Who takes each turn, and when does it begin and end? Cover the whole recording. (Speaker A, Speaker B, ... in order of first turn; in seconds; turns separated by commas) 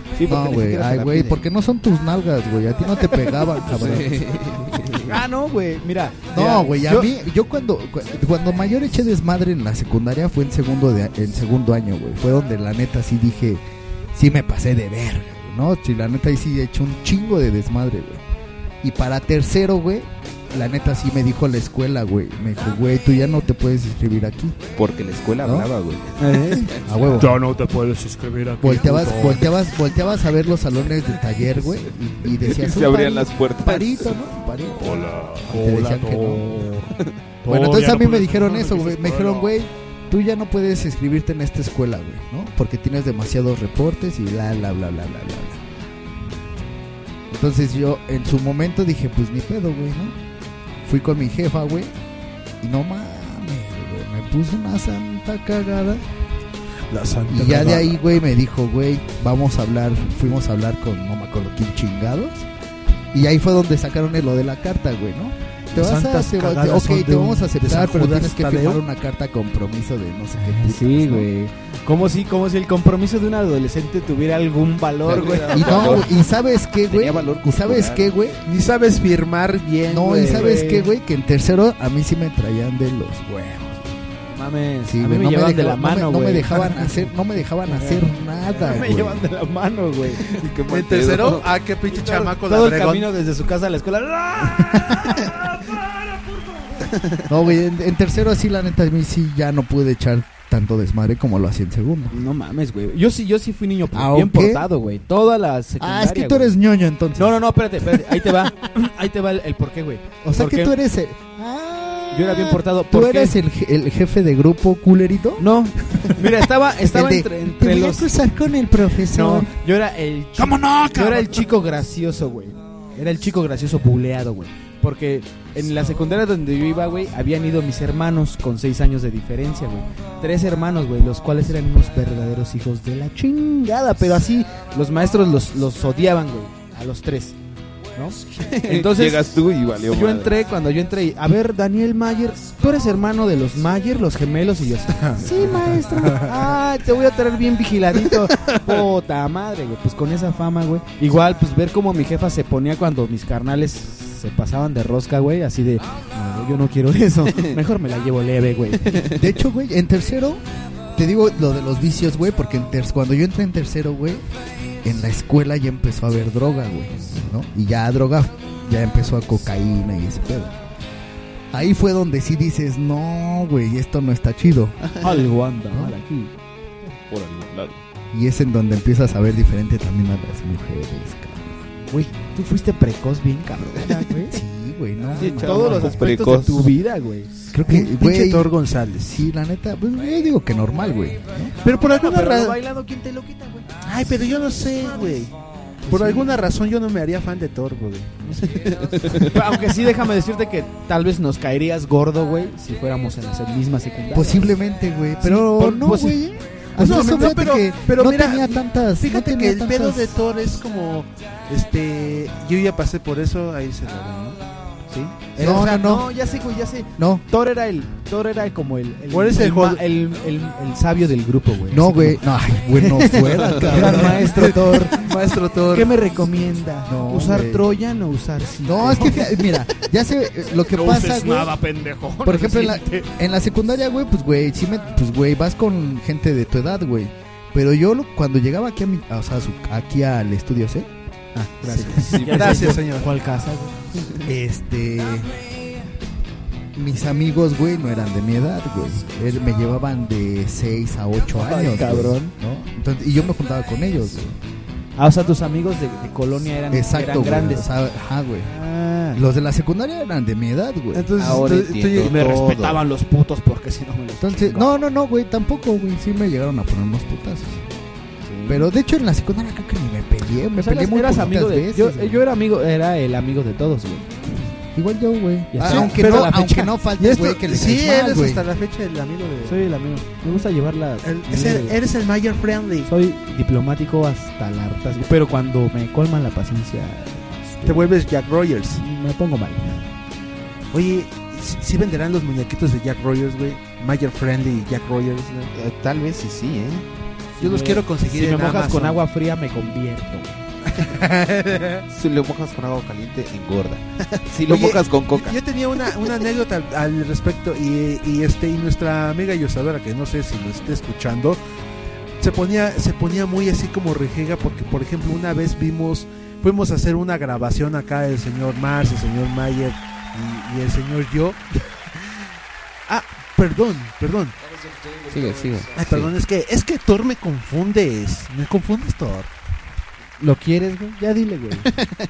Speaker A: 0.1-1.4, Speaker B: 0.2-4.3, Speaker A: 3.7-5.2, Speaker C: 5.0-7.1, Speaker B: 6.3-13.6, Speaker B: 14.1-18.2, Speaker B: 18.8-24.6, Speaker A: 24.8-26.8, Speaker B: 25.4-25.7, Speaker C: 26.2-26.7, Speaker B: 26.8-27.4, Speaker D: 27.2-29.5, Speaker B: 28.6-36.5, Speaker A: 32.3-34.0, Speaker D: 34.8-39.4, Speaker B: 37.4-45.6, Speaker B: 47.3-50.1, Speaker B: 50.8-51.9, Speaker B: 52.6-56.0, Speaker E: 56.9-58.0, Speaker B: 57.3-62.5, Speaker B: 63.1-71.3, Speaker E: 65.7-68.8, Speaker C: 70.4-76.0, Speaker A: 75.0-76.2, Speaker B: 75.5-78.4, Speaker A: 76.9-78.1, Speaker E: 78.5-80.7, Speaker B: 79.9-83.9, Speaker C: 80.2-80.9, Speaker C: 84.3-87.1, Speaker B: 84.9-89.2, Speaker C: 87.7-90.4, Speaker A: 90.2-91.6, Speaker E: 90.7-93.1, Speaker C: 91.9-96.9, Speaker B: 97.3-102.1, Speaker C: 102.1-106.5, Speaker B: 103.9-104.7, Speaker B: 105.8-107.4, Speaker C: 107.2-110.7, Speaker B: 110.2-119.5, Speaker C: 112.1-113.4, Speaker C: 115.4-118.1, Speaker C: 119.1-137.4, Speaker B: 120.4-121.5, Speaker C: 137.9-139.2, Speaker A: 138.5-140.3, Speaker C: 139.9-159.1, Speaker E: 144.9-146.4, Speaker B: 159.1-160.4, Speaker B: 160.9-164.2, Speaker B: 164.8-170.5, Speaker B: 171.5-174.9, Speaker C: 175.0-176.3, Speaker A: 177.1-177.8, Speaker B: 178.1-181.6, Speaker E: 181.9-182.1, Speaker C: 182.2-184.4, Speaker B: 184.3-185.9, Speaker A: 185.1-186.7, Speaker C: 185.2-187.4, Speaker B: 187.5-191.5, Speaker E: 187.7-189.2, Speaker E: 191.6-192.6, Speaker C: 191.9-193.8, Speaker E: 193.8-195.3, Speaker E: 195.9-199.3, Speaker C: 195.9-196.2, Speaker A: 198.7-199.2, Speaker C: 199.2-204.6, Speaker B: 204.1-210.2, Speaker C: 205.2-206.2, Speaker E: 206.8-214.4, Speaker C: 214.9-222.2, Speaker E: 215.4-215.9, Speaker B: 215.4-216.1, Speaker B: 217.0-217.2, Speaker E: 219.1-219.8, Speaker B: 221.7-224.5, Speaker C: 222.7-225.1, Speaker E: 223.7-225.9, Speaker C: 225.7-229.8, Speaker B: 226.9-227.7, Speaker B: 228.6-231.6, Speaker C: 230.7-233.1, Speaker B: 232.2-241.4, Speaker C: 241.6-244.1, Speaker E: 241.6-243.1, Speaker A: 241.9-242.6, Speaker B: 244.2-245.3, Speaker B: 246.7-254.4, Speaker C: 251.3-252.3, Speaker C: 255.0-257.7, Speaker B: 256.7-258.5, Speaker C: 258.4-259.2, Speaker B: 259.1-261.1, Speaker E: 260.9-262.4, Speaker A: 261.2-262.8, Speaker C: 262.0-264.8, Speaker B: 264.2-267.6, Speaker C: 268.2-268.7, Speaker B: 268.5-272.2, Speaker C: 270.6-274.1, Speaker B: 274.7-278.4, Speaker C: 275.5-276.7, Speaker E: 275.6-276.4, Speaker E: 277.0-279.6, Speaker C: 279.4-281.8, Speaker E: 281.0-282.9, Speaker C: 282.9-287.9, Speaker E: 287.6-288.8, Speaker C: 288.8-289.9, Speaker E: 290.7-295.5, Speaker A: 295.5-296.9, Speaker C: 297.4-300.4, Speaker E: 297.4-299.0, Speaker E: 300.7-301.8, Speaker A: 301.9-305.4, Speaker E: 304.5-311.4, Speaker E: 312.2-321.4, Speaker E: 322.9-324.4, Speaker A: 325.1-326.1, Speaker E: 325.8-329.3, Speaker C: 330.2-331.7